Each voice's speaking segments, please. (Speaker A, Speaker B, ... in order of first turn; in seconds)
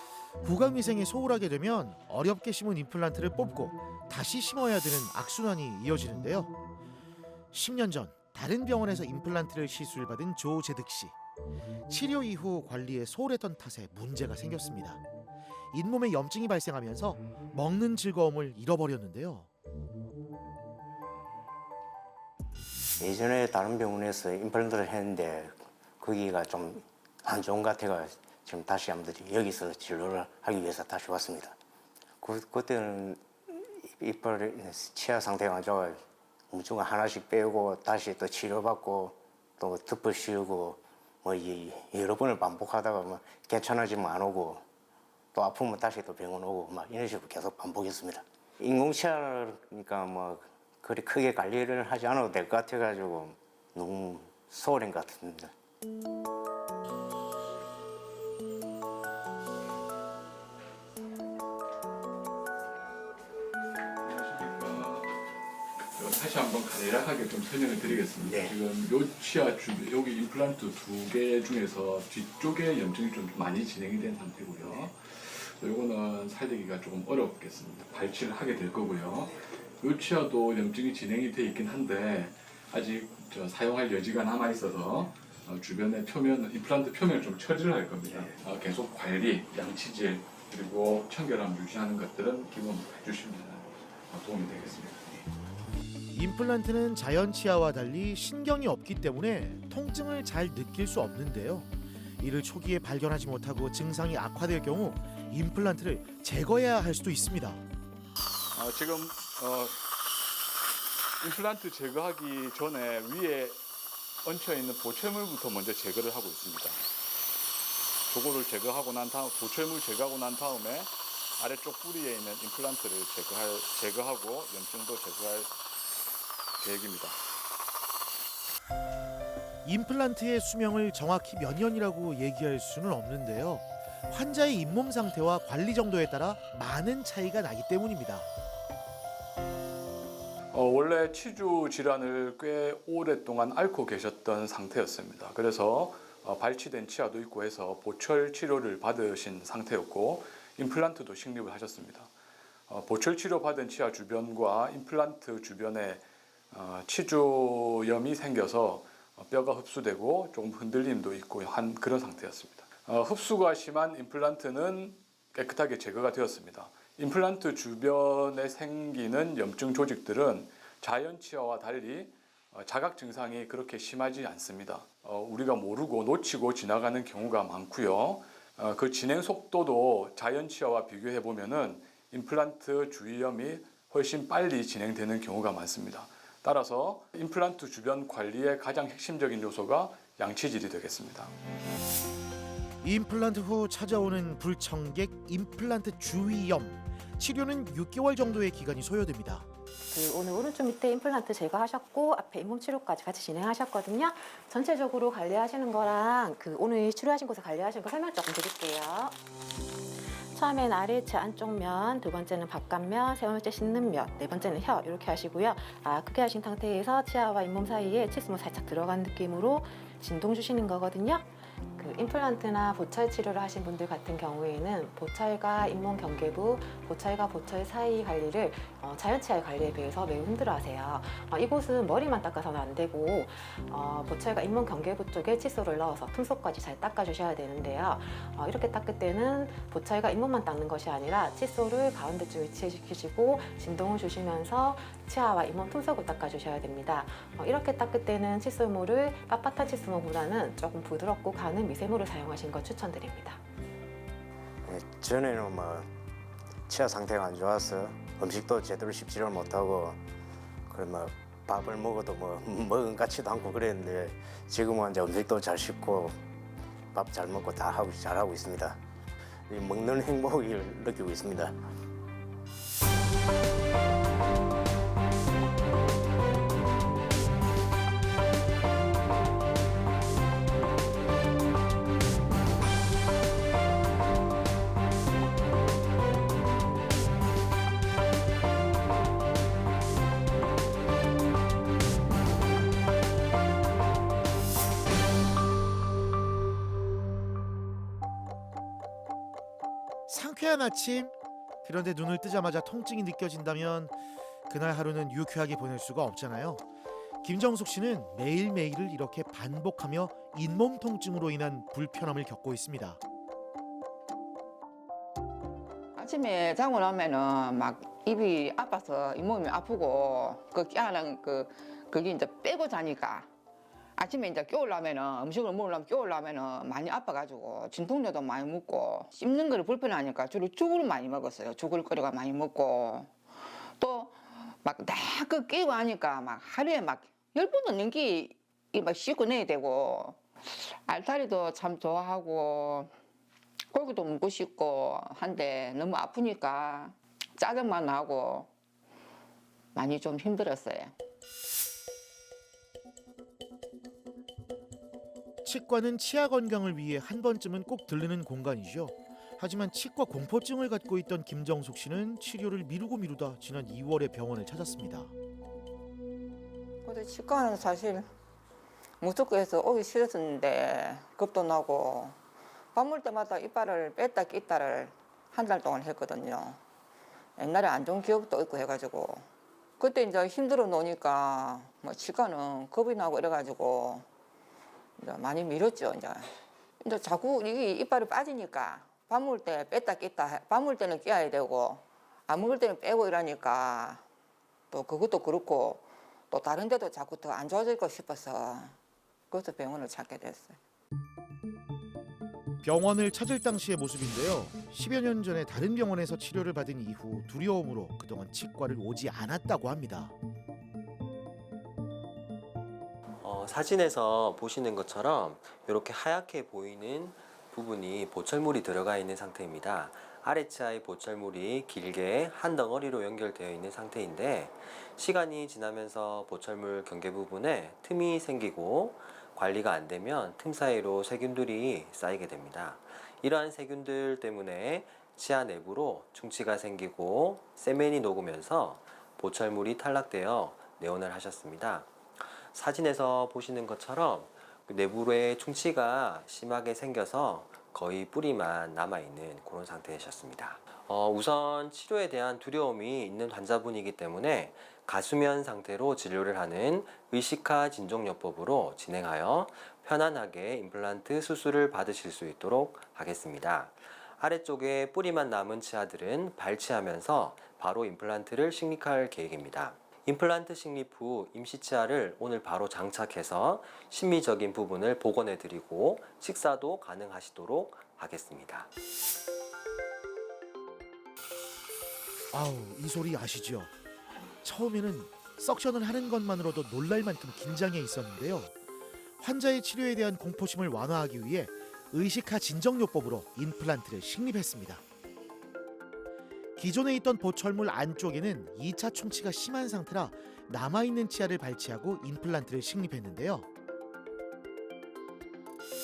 Speaker A: 0.4-6.5, 7.5-11.1, 11.9-15.0, 15.7-19.5, 96.1-107.6, 129.6-138.3, 192.8-199.5, 300.1-301.1, 301.6-303.9, 304.5-306.6, 307.2-313.0, 355.4-365.1, 402.6-410.1, 482.3-483.7, 484.4-488.5, 489.2-494.8, 496.6-503.4
Speaker B: 23.0-31.6, 32.2-36.0, 36.5-44.6, 45.3-55.5, 68.2-68.5, 254.6-255.9, 256.7-260.0, 260.7-266.2, 266.9-268.8, 269.5-271.5
Speaker C: 64.0-65.2, 65.9-95.2, 108.5-109.8, 111.2-113.6, 114.2-116.8, 118.1-125.5, 126.6-127.2, 140.5-152.1, 152.7-191.3
Speaker D: 199.9-209.2, 210.3-253.4
Speaker E: 315.9-323.3, 324.0-333.1, 333.8-342.9, 343.7-348.5, 349.7-350.9, 366.8-368.1, 369.0-372.2, 372.7-376.6, 377.4-379.2, 379.8-384.1, 385.0-394.0, 394.7-398.8, 399.3-400.6
Speaker F: 413.2-478.7